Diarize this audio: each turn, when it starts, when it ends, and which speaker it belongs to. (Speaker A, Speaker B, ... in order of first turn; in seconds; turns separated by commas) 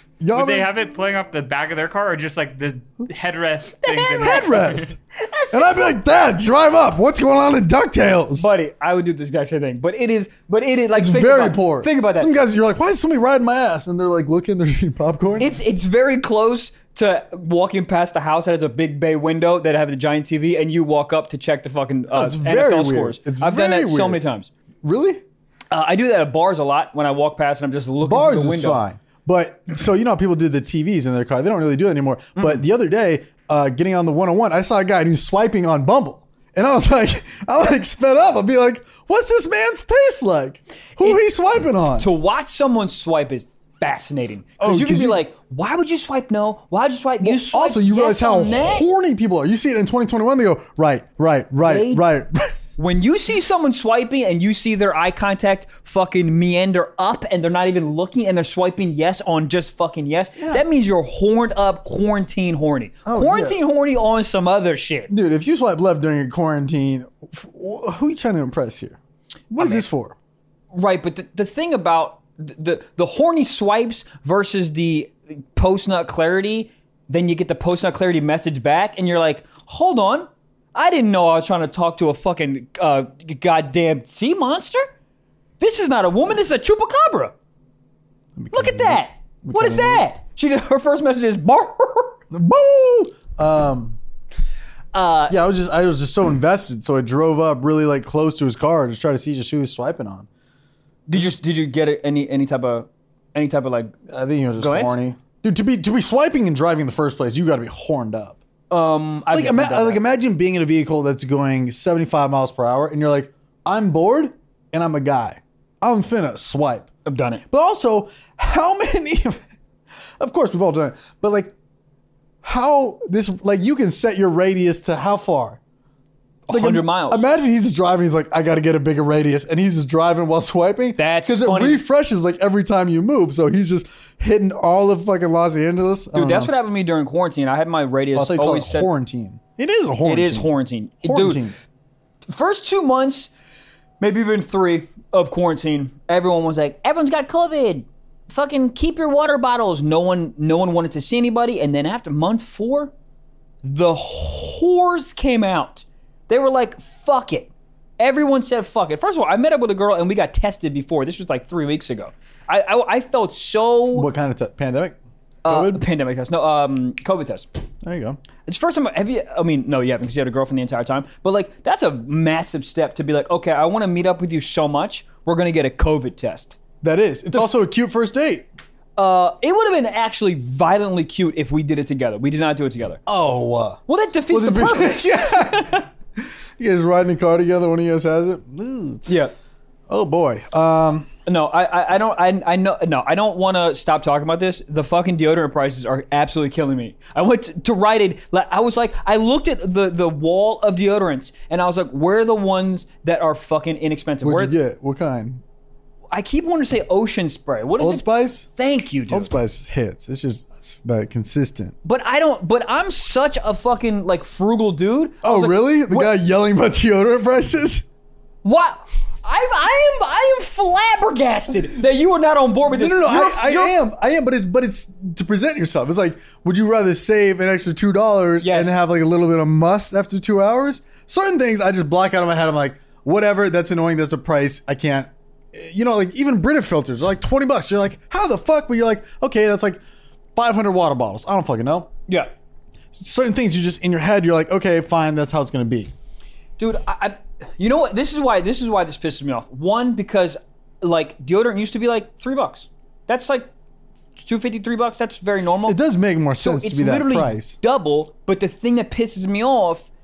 Speaker A: 0.2-0.7, Speaker B: 0.3-4.9, Speaker C: 3.8-5.8, Speaker A: 4.2-5.0, Speaker A: 5.5-8.5, Speaker C: 8.3-12.3, Speaker A: 10.9-15.6, Speaker C: 15.4-24.5, Speaker A: 22.1-24.2, Speaker A: 24.8-25.2, Speaker C: 25.7-28.8, Speaker A: 28.0-42.1, Speaker C: 32.4-32.6, Speaker C: 42.0-48.8, Speaker A: 44.6-45.2, Speaker A: 47.2-52.5, Speaker C: 51.6-52.0, Speaker C: 52.8-65.1, Speaker A: 60.4-60.6, Speaker A: 63.0-63.6, Speaker A: 65.1-69.0, Speaker A: 69.5-70.1, Speaker C: 69.6-69.8, Speaker C: 70.7-84.9, Speaker C: 85.6-87.3, Speaker A: 88.3-90.0, Speaker C: 88.5-92.2, Speaker A: 92.3-94.0, Speaker C: 94.9-95.4, Speaker A: 95.3-100.3, Speaker C: 101.1-104.0, Speaker A: 104.1-108.4, Speaker C: 104.6-105.0, Speaker C: 108.7-110.0, Speaker A: 109.3-116.9, Speaker C: 117.0-117.4, Speaker A: 117.5-119.4, Speaker A: 120.2-121.5, Speaker A: 122.4-125.6, Speaker C: 126.5-127.2, Speaker A: 126.5-136.5, Speaker C: 131.0-131.8, Speaker C: 136.1-138.9, Speaker A: 138.1-140.5, Speaker C: 140.0-141.4, Speaker A: 141.0-141.5, Speaker C: 142.3-143.3, Speaker C: 144.0-152.9, Speaker C: 153.6-164.1, Speaker A: 163.9-165.8, Speaker C: 165.4-167.5, Speaker A: 167.8-168.2, Speaker C: 168.4-176.6, Speaker A: 176.8-178.5, Speaker C: 179.0-183.0, Speaker A: 183.1-189.1, Speaker C: 183.9-185.9, Speaker C: 189.1-189.3, Speaker A: 189.9-191.1, Speaker C: 191.2-204.5, Speaker A: 204.2-205.4, Speaker C: 206.1-209.3, Speaker A: 207.8-208.5, Speaker A: 209.1-211.7, Speaker C: 211.8-216.1, Speaker A: 215.2-217.8, Speaker C: 218.4-223.7, Speaker A: 222.7-239.8, Speaker C: 228.4-228.7, Speaker A: 240.3-241.9, Speaker A: 242.9-245.9, Speaker C: 246.6-253.5, Speaker C: 254.2-255.8, Speaker A: 255.7-257.6, Speaker C: 256.4-259.9